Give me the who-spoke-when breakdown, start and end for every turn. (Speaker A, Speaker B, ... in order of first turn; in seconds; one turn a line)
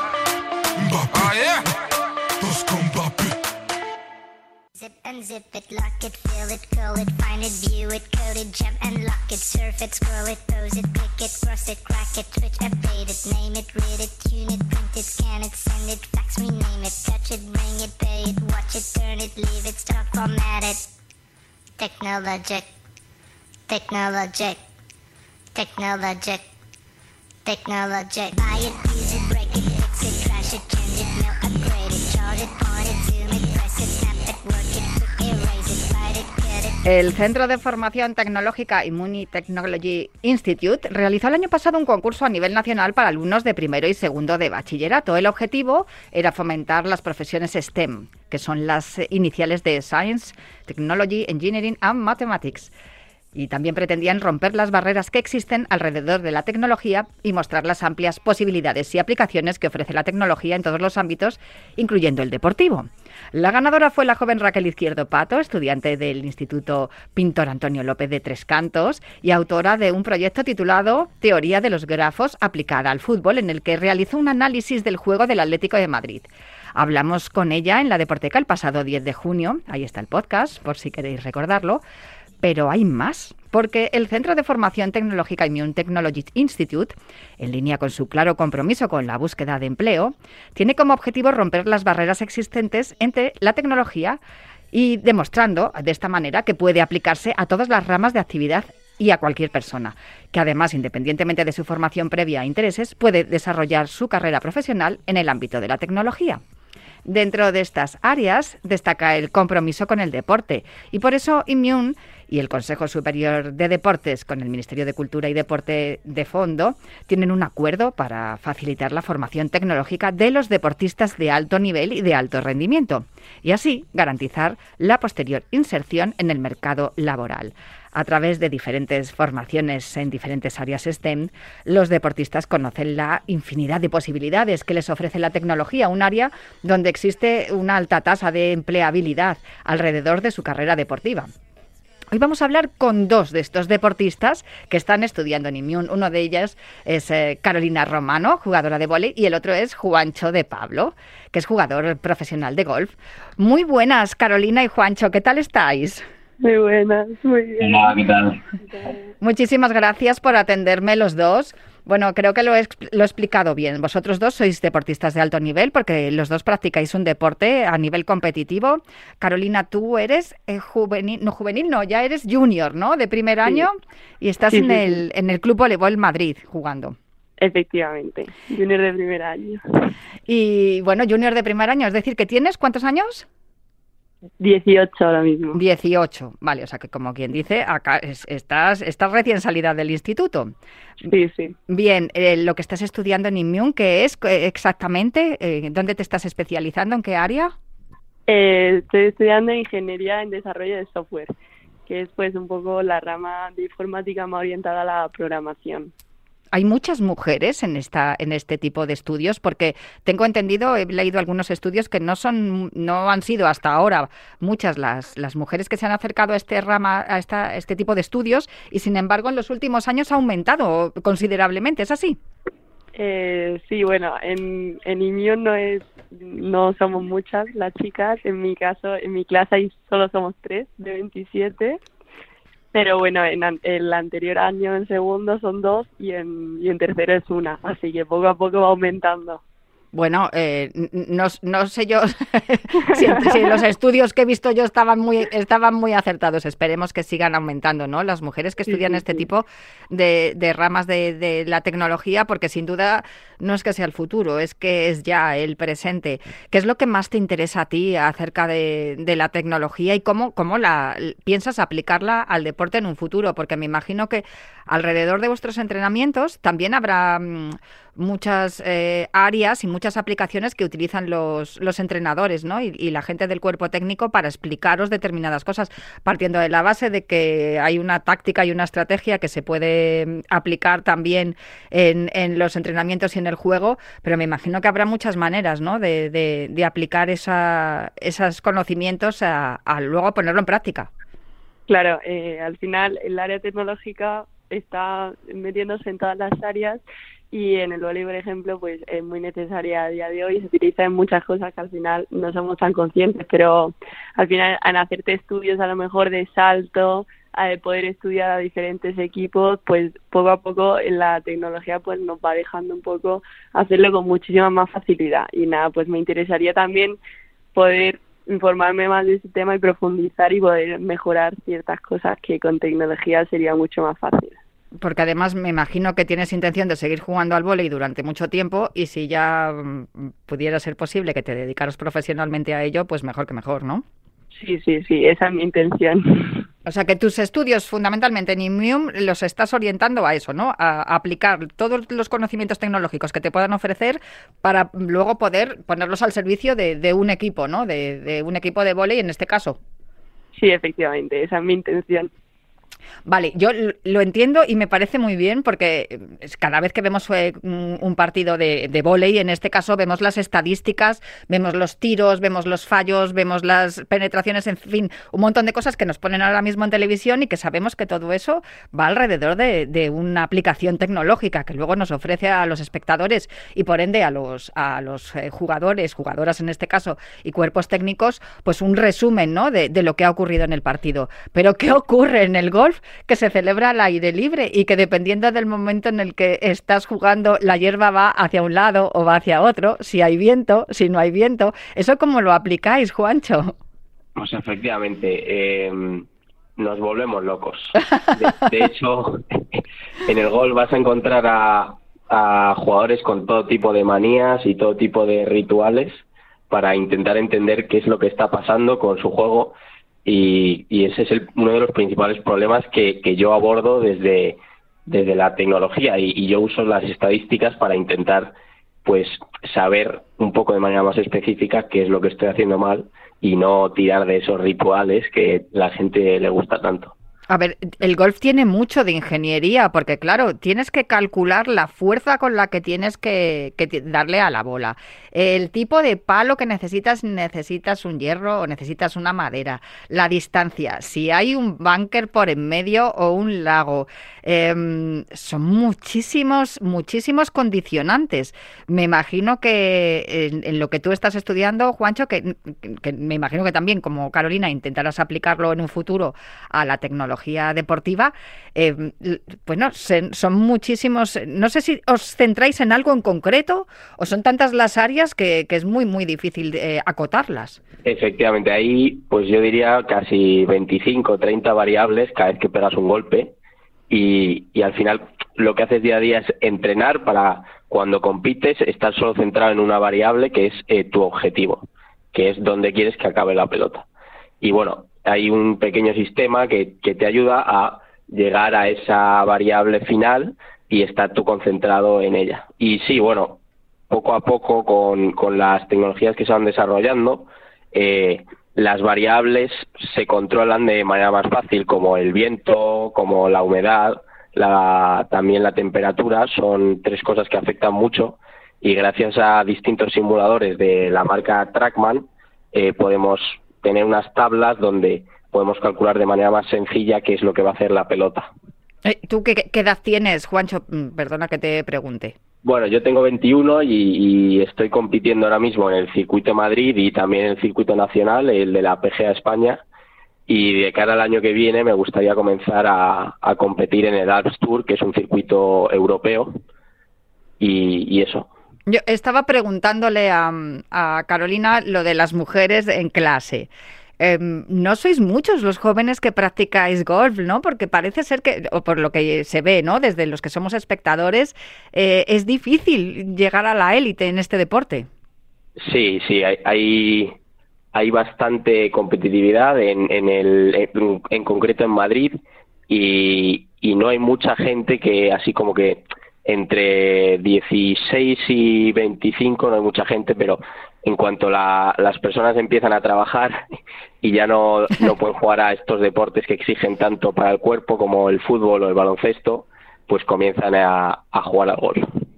Speaker A: 0.8-1.7
Speaker A: 2.4-3.4
Speaker B: 4.8-20.9
Speaker B: 21.8-22.7
Speaker B: 23.7-24.6
Speaker B: 25.6-26.5
Speaker B: 27.4-36.8
Speaker C: 36.9-52.7
Speaker C: 53.4-81.8
Speaker C: 82.4-94.2
Speaker C: 94.7-106.4
Speaker C: 107.1-141.3
Speaker C: 142.1-156.1
Speaker D: 156.4-158.0
Speaker E: 157.6-158.4
Speaker D: 158.7-159.0
Speaker C: 159.2-177.0
Speaker D: 174.5-175.0
Speaker D: 177.4-179.9
Speaker C: 180.3-183.3
Speaker D: 184.4-185.6
Speaker C: 185.5-190.5
Speaker D: 191.0-191.6
Speaker C: 191.7-197.5
Speaker D: 198.3-201.3
Speaker D: 201.9-205.9
Speaker C: 206.5-222.2
Speaker D: 222.9-231.8
Speaker D: 232.7-239.4
Speaker C: 239.9-290.9
Speaker D: 242.9-243.6
Speaker D: 248.7-249.2
Speaker D: 291.7-317.0
Speaker D: 317.6-324.4
Speaker C: 324.8-333.8
Speaker D: 334.4-336.4
Speaker C: 336.7-349.6
Speaker D: 350.4-352.1
Speaker C: 353.1-393.6
Speaker E: 394.2-409.6
Speaker E: 410.1-418.3
Speaker E: 418.9-426.9
Speaker C: 427.3-467.6
Speaker E: 467.9-473.4
Speaker E: 473.9-483.9
Speaker E: 484.4-518.3
Speaker C: 518.9-522.1
Speaker E: 522.4-529.6
Speaker E: 530.3-536.4
Speaker E: 537.4-538.3
Speaker C: 538.7-554.9
Speaker E: 555.6-557.1
Speaker E: 557.7-573.4
Speaker E: 574.0-581.9